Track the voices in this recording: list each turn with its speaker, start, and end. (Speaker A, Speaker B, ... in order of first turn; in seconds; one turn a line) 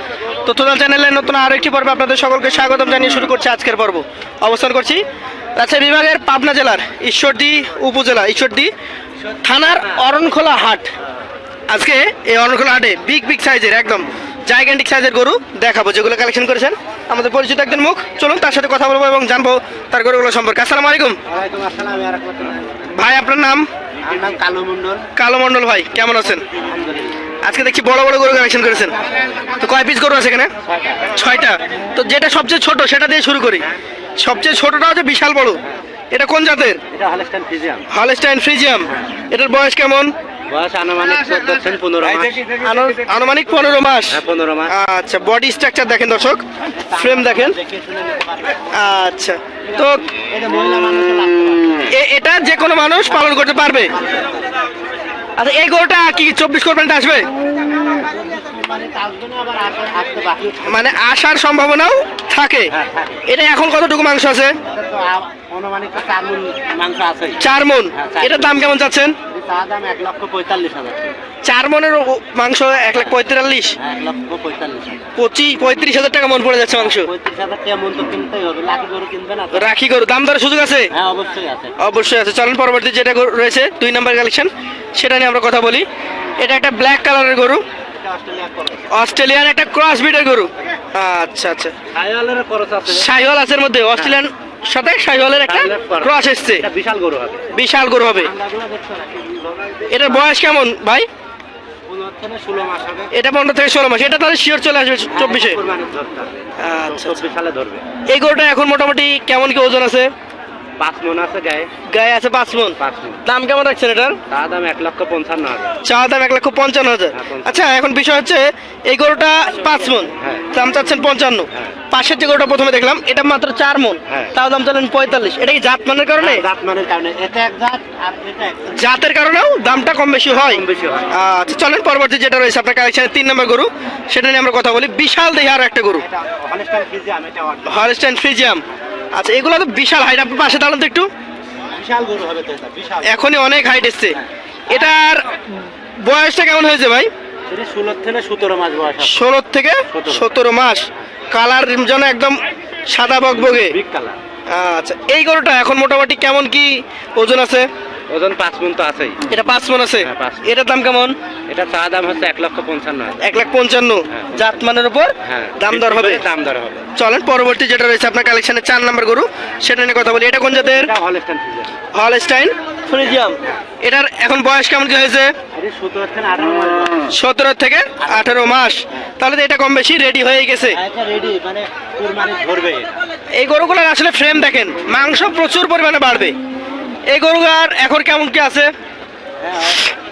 Speaker A: 0.5-5.0
Speaker A: 5.6-8.7
Speaker B: 9.3-10.0
Speaker A: 9.4-10.9
Speaker A: 11.7-21.2
Speaker B: 21.3-22.8
Speaker A: 22.9-23.7
Speaker B: 24.0-25.1
Speaker A: 25.2-26.4
Speaker B: 26.5-27.1
Speaker A: 27.4-29.0
Speaker A: 29.6-30.5
Speaker B: 30.6-31.1
Speaker A: 31.1-33.7
Speaker A: 34.2-35.6
Speaker A: 36.1-36.8
Speaker B: 36.9-37.9
Speaker A: 37.9-40.1
Speaker B: 40.5-42.5
Speaker A: 42.5-46.4
Speaker B: 44.1-44.7
Speaker B: 46.8-48.8
Speaker A: 46.9-47.6
Speaker A: 48.7-50.0
Speaker B: 49.6-51.8
Speaker A: 51.9-54.0
Speaker B: 53.1-54.5
Speaker A: 55.4-57.3
Speaker B: 57.7-61.0
Speaker A: 60.6-62.7
Speaker B: 62.7-63.2
Speaker A: 63.3-64.6
Speaker B: 64.6-71.1
Speaker A: 67.4-69.2
Speaker A: 71.4-73.8
Speaker B: 73.8-75.1
Speaker A: 75.2-77.1
Speaker B: 76.8-79.7
Speaker A: 79.5-80.9
Speaker B: 80.9-81.8
Speaker A: 81.8-85.9
Speaker A: 86.4-87.6
Speaker B: 88.0-89.0
Speaker A: 88.9-91.7
Speaker B: 91.9-93.1
Speaker A: 92.9-96.7
Speaker B: 95.4-97.5
Speaker A: 97.5-98.3
Speaker B: 98.1-100.3
Speaker A: 99.9-101.1
Speaker B: 101.9-103.1
Speaker A: 103.1-105.6
Speaker B: 105.1-106.3
Speaker A: 106.6-107.2
Speaker B: 106.9-107.8
Speaker A: 108.1-110.1
Speaker B: 110.8-111.7
Speaker A: 111.9-114.2
Speaker B: 112.8-113.2
Speaker B: 114.3-115.8
Speaker A: 115.8-126.5
Speaker B: 117.1-117.6
Speaker B: 120.2-120.5
Speaker B: 124.1-124.3
Speaker B: 126.2-128.8
Speaker A: 128.7-136.0
Speaker B: 130.3-131.1
Speaker B: 135.9-137.8
Speaker A: 137.7-138.6
Speaker A: 139.2-141.1
Speaker B: 141.7-143.2
Speaker A: 143.0-144.2
Speaker B: 144.2-144.9
Speaker A: 144.7-147.1
Speaker B: 147.5-149.3
Speaker A: 149.0-153.8
Speaker B: 149.9-150.3
Speaker B: 153.3-154.2
Speaker A: 154.5-157.7
Speaker B: 158.1-159.2
Speaker A: 159.3-161.2
Speaker B: 160.0-160.5
Speaker B: 161.5-163.3
Speaker A: 163.2-166.2
Speaker B: 164.1-164.6
Speaker B: 165.2-166.9
Speaker A: 166.9-170.9
Speaker B: 170.6-171.7
Speaker A: 171.9-175.3
Speaker B: 175.5-177.1
Speaker A: 177.1-180.8
Speaker B: 178.0-179.0
Speaker B: 180.7-182.9
Speaker A: 183.3-186.4
Speaker A: 187.1-188.7
Speaker B: 189.4-189.9